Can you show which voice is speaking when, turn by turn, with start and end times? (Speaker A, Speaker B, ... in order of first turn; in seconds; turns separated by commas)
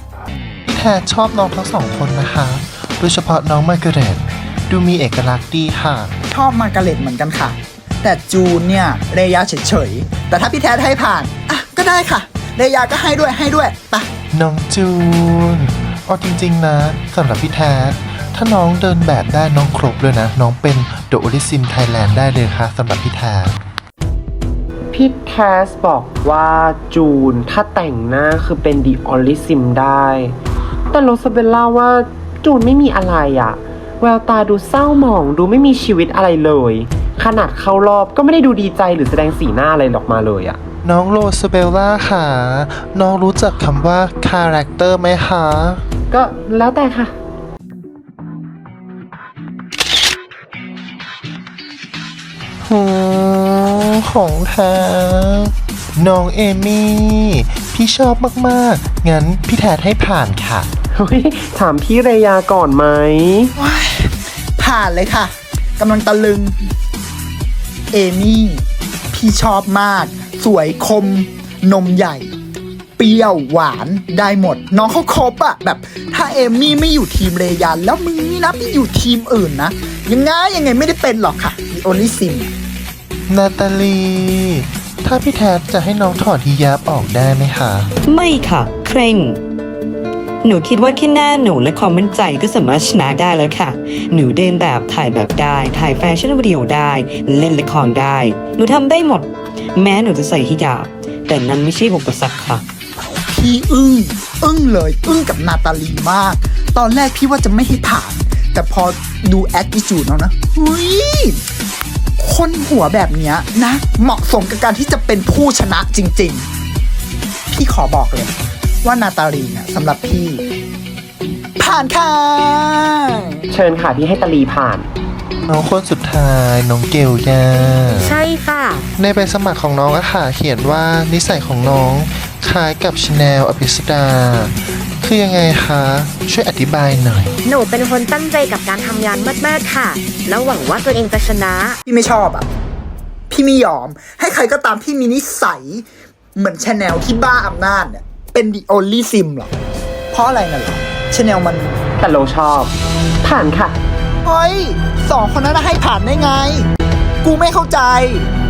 Speaker A: 0.7-6.1, Speaker B: 6.3-14.1, Speaker A: 14.3-23.6, Speaker C: 24.9-30.4, Speaker C: 30.9-40.6, Speaker A: 40.8-45.8, Speaker C: 46.1-47.1, Speaker A: 52.6-60.7, Speaker C: 61.0-63.5, Speaker B: 63.6-66.7, Speaker B: 67.9-72.3, Speaker B: 73.0-82.5, Speaker A: 83.3-87.9, Speaker D: 88.1-89.4, Speaker D: 90.4-102.6, Speaker B: 103.3-111.4, Speaker B: 112.2-116.5, Speaker B: 117.5-118.3, Speaker B: 118.8-120.4, Speaker B: 121.6-123.4, Speaker C: 123.5-124.9, Speaker A: 125.5-128.2, Speaker E: 128.0-128.9, Speaker A: 129.0-137.3, Speaker E: 137.4-141.8, Speaker B: 141.9-142.5, Speaker B: 143.3-149.5, Speaker B: 150.1-151.8, Speaker C: 152.0-153.8, Speaker B: 154.2-156.7, Speaker B: 157.2-158.3